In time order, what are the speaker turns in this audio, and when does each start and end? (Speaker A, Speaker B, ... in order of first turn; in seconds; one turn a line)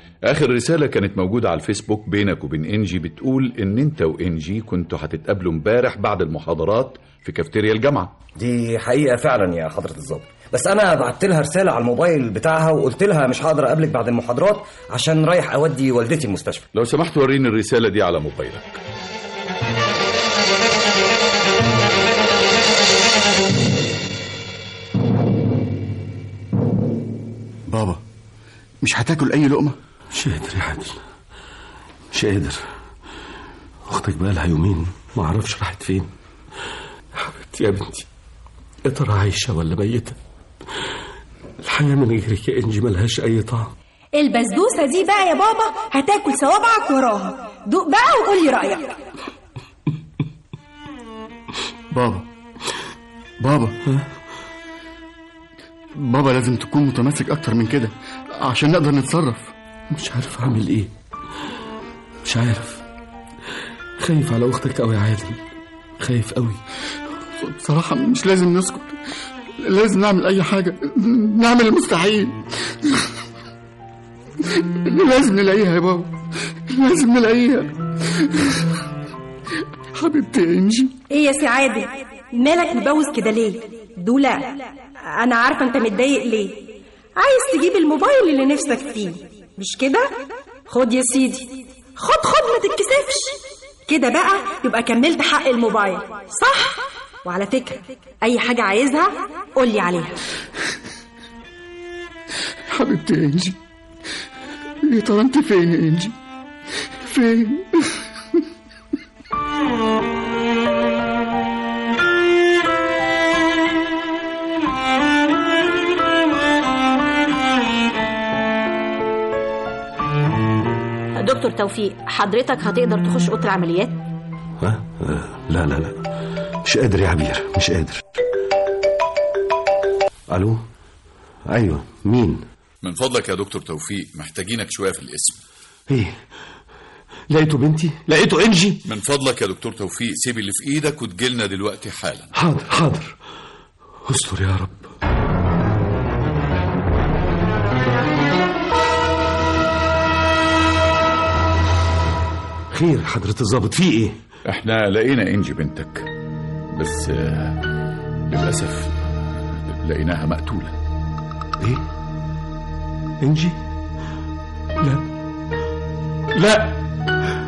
Speaker A: 0.2-8.1
Speaker B: 8.4-16.7
Speaker A: 16.7-18.8
Speaker C: 27.7-28.0
Speaker C: 28.8-29.8
Speaker D: 30.1-31.0
Speaker D: 32.1-32.6
Speaker D: 33.9-36.1
Speaker D: 37.1-38.1
Speaker D: 38.8-40.2
Speaker D: 41.6-43.7
Speaker E: 44.1-49.0
Speaker C: 51.9-52.2
Speaker C: 53.4-53.8
Speaker C: 55.9-59.5
Speaker D: 59.9-60.9
Speaker D: 62.2-62.8
Speaker D: 64.0-65.4
Speaker D: 66.0-66.6
Speaker C: 67.4-69.0
Speaker C: 69.6-73.1
Speaker C: 74.4-76.1
Speaker C: 76.7-78.7
Speaker C: 79.9-80.9
Speaker E: 81.1-100.2
Speaker C: 102.7-103.5
Speaker C: 104.8-106.1
Speaker C: 107.0-108.0
Speaker F: 121.2-124.0
Speaker D: 124.6-126.0
Speaker D: 126.6-128.0
Speaker D: 130.3-130.6
Speaker D: 131.5-132.4
Speaker A: 132.8-135.4
Speaker D: 135.9-136.2
Speaker D: 137.3-138.8
Speaker A: 138.8-142.3
Speaker D: 142.3-143.2
Speaker D: 144.1-144.9
Speaker D: 152.7-154.2
Speaker A: 154.4-156.1
Speaker A: 156.7-157.6
Speaker A: 158.3-158.9
Speaker A: 159.7-160.7
Speaker D: 163.2-163.6
Speaker D: 164.8-165.0
Speaker D: 166.3-166.8